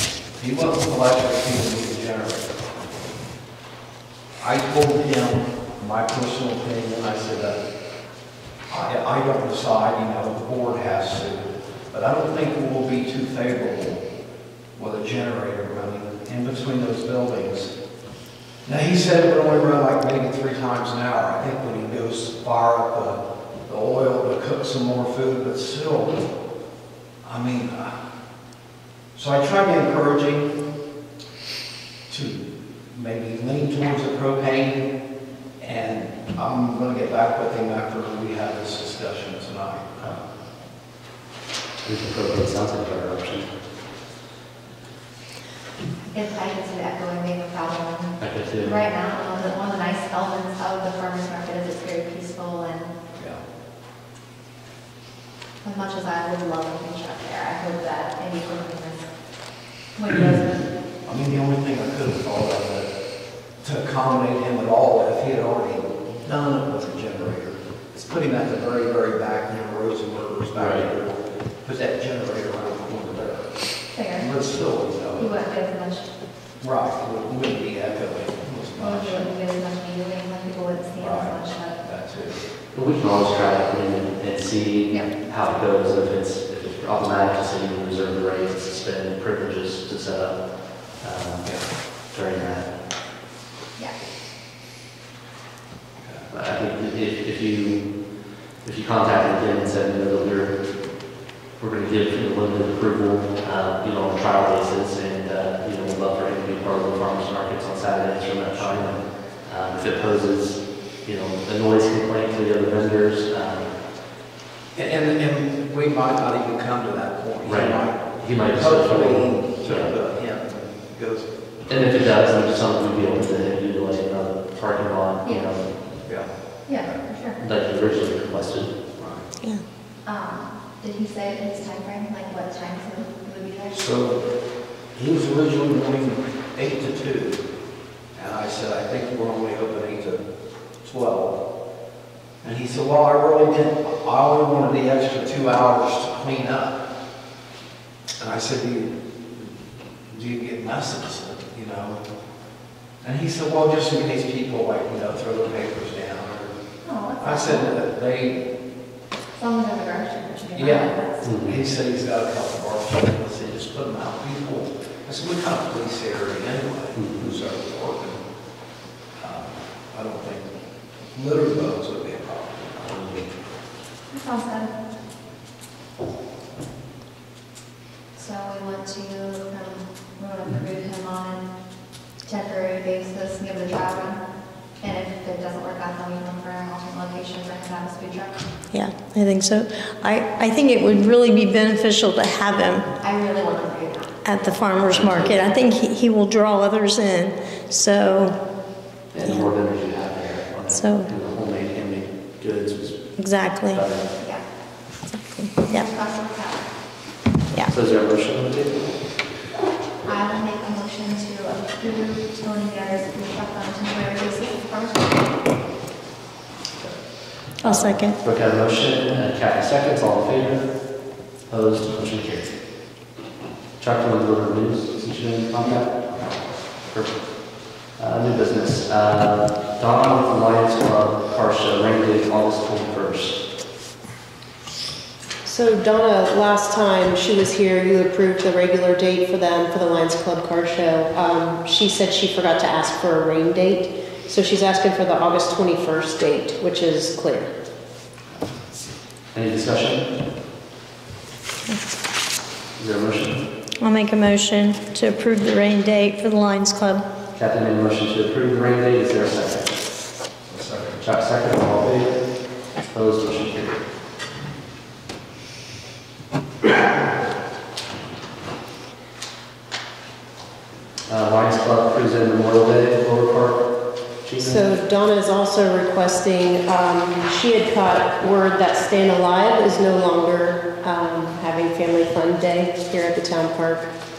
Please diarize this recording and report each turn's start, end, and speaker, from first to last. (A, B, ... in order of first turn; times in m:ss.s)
0:00.3-0:02.6 A
0:04.4-0:07.6 A
0:08.7-0:14.1 A
0:14.7-0:17.8 A
0:18.6-0:26.3 A
0:27.2-0:28.0 A
0:29.1-0:30.6 A
0:32.1-0:40.2 A
0:41.8-0:43.5 B
0:46.1-0:53.0 C
0:48.2-0:48.8 B
0:53.1-0:53.4 A
0:55.6-1:00.8 C
1:00.8-1:15.4 A
1:10.6-1:10.9 B
1:13.9-1:16.1 C
1:16.6-1:19.3 A
1:18.8-1:21.8 C
1:21.0-1:22.4 A
1:22.7-1:32.7 B
1:31.4-1:31.8 A
1:36.0-1:36.3 A
1:36.3-1:53.8 B
1:48.5-1:49.9 A
1:54.7-2:01.3 A
1:57.4-1:59.9 B
2:01.7-2:05.7 B
2:05.2-2:05.8 C
2:06.0-2:07.0 A
2:06.6-2:07.4 C
2:07.4-2:08.8 B
2:08.9-2:09.3 A
2:10.0-2:14.0 C
2:13.7-2:17.5 A
2:18.1-2:21.4 A
2:22.4-2:26.8 A
2:28.2-2:32.1 A
2:33.0-2:36.5 A
2:36.8-2:37.8 C
2:37.2-2:38.5 A
2:39.3-2:41.3 C
2:40.5-2:48.2 A
2:41.2-2:41.6 B
2:46.9-2:47.4 B
2:49.1-2:53.4 A
2:54.1-2:54.8 C
2:58.1-3:08.5 C
3:08.7-3:12.9 D
3:13.0-3:14.4 C
3:14.2-3:19.5 D
3:14.9-3:15.4 B
3:19.1-3:24.1 B
3:20.7-3:21.1 D
3:23.2-3:23.8 D
3:24.2-3:24.8 C
3:25.1-3:25.9 D
3:25.6-3:27.1 C
3:27.7-3:29.0 B
3:30.0-3:35.4 C
3:36.8-3:42.6 B
3:37.6-3:38.2 D
3:43.8-3:53.4 B
3:55.4-4:07.6 E
4:09.3-4:10.2 B
4:12.8-4:13.5 B
4:13.8-4:17.1 D
4:17.3-4:19.8 B
4:20.4-4:21.0 A
4:21.0-4:23.8 B
4:31.1-4:34.7 B
4:34.4-4:44.0 E